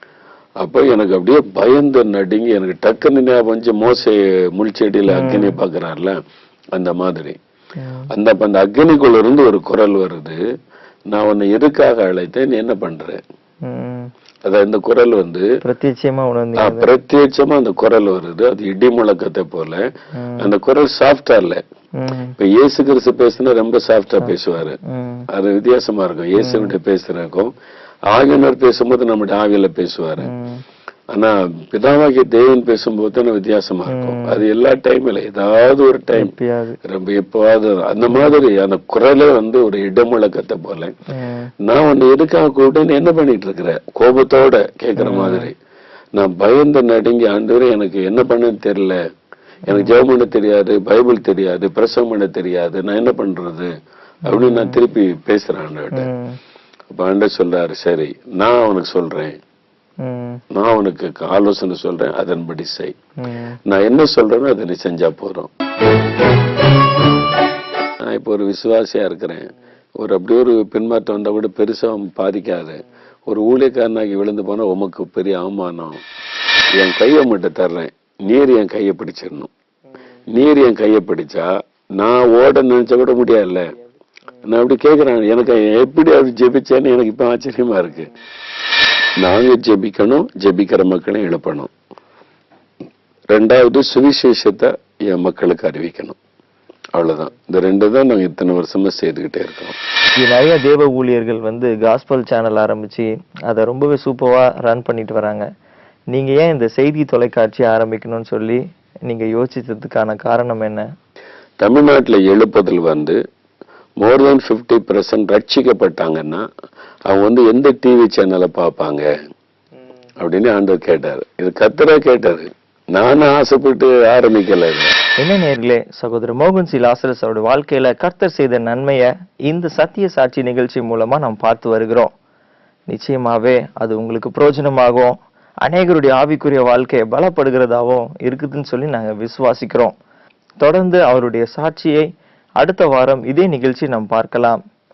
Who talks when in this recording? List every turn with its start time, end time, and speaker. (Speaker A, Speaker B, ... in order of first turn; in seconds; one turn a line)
Speaker A: 0.6-6.2
Speaker B: 5.1-5.6
Speaker A: 6.8-7.4
Speaker B: 7.8-8.1
Speaker A: 8.1-10.4
Speaker A: 11.1-13.2
Speaker B: 13.7-14.1
Speaker A: 14.4-15.5
Speaker B: 15.6-16.9
Speaker A: 16.6-19.8
Speaker B: 20.2-20.5
Speaker A: 20.4-21.6
Speaker B: 22.0-22.3
Speaker A: 22.4-24.8
Speaker B: 24.2-25.3
Speaker A: 25.3-27.5
Speaker B: 26.4-26.7
Speaker A: 28.1-30.3
Speaker B: 30.2-30.6
Speaker A: 31.1-36.3
Speaker B: 33.9-34.4
Speaker B: 36.2-36.8
Speaker A: 36.8-40.9
Speaker B: 38.1-38.4
Speaker B: 41.1-41.5
Speaker A: 41.6-45.5
Speaker B: 45.0-45.5
Speaker A: 46.2-49.0
Speaker B: 49.7-50.0
Speaker A: 49.7-53.7
Speaker A: 54.3-56.1
Speaker B: 54.3-54.8
Speaker B: 55.9-56.4
Speaker A: 56.9-59.4
Speaker B: 60.0-60.4
Speaker A: 60.5-63.0
Speaker B: 63.2-63.6
Speaker A: 63.7-65.5
Speaker A: 68.0-76.0
Speaker A: 76.8-79.5
Speaker A: 80.3-81.5
Speaker A: 82.0-83.7
Speaker A: 84.4-88.1
Speaker A: 89.2-91.7
Speaker A: 93.3-96.2
Speaker A: 97.0-99.8
Speaker B: 100.2-105.5
Speaker B: 106.1-110.8
Speaker A: 111.6-113.2
Speaker A: 114.0-116.4
Speaker A: 117.1-119.1
Speaker A: 120.2-124.9
Speaker B: 125.2-132.1
Speaker B: 132.9-140.0
Speaker B: 140.6-142.1
Speaker B: 142.6-144.6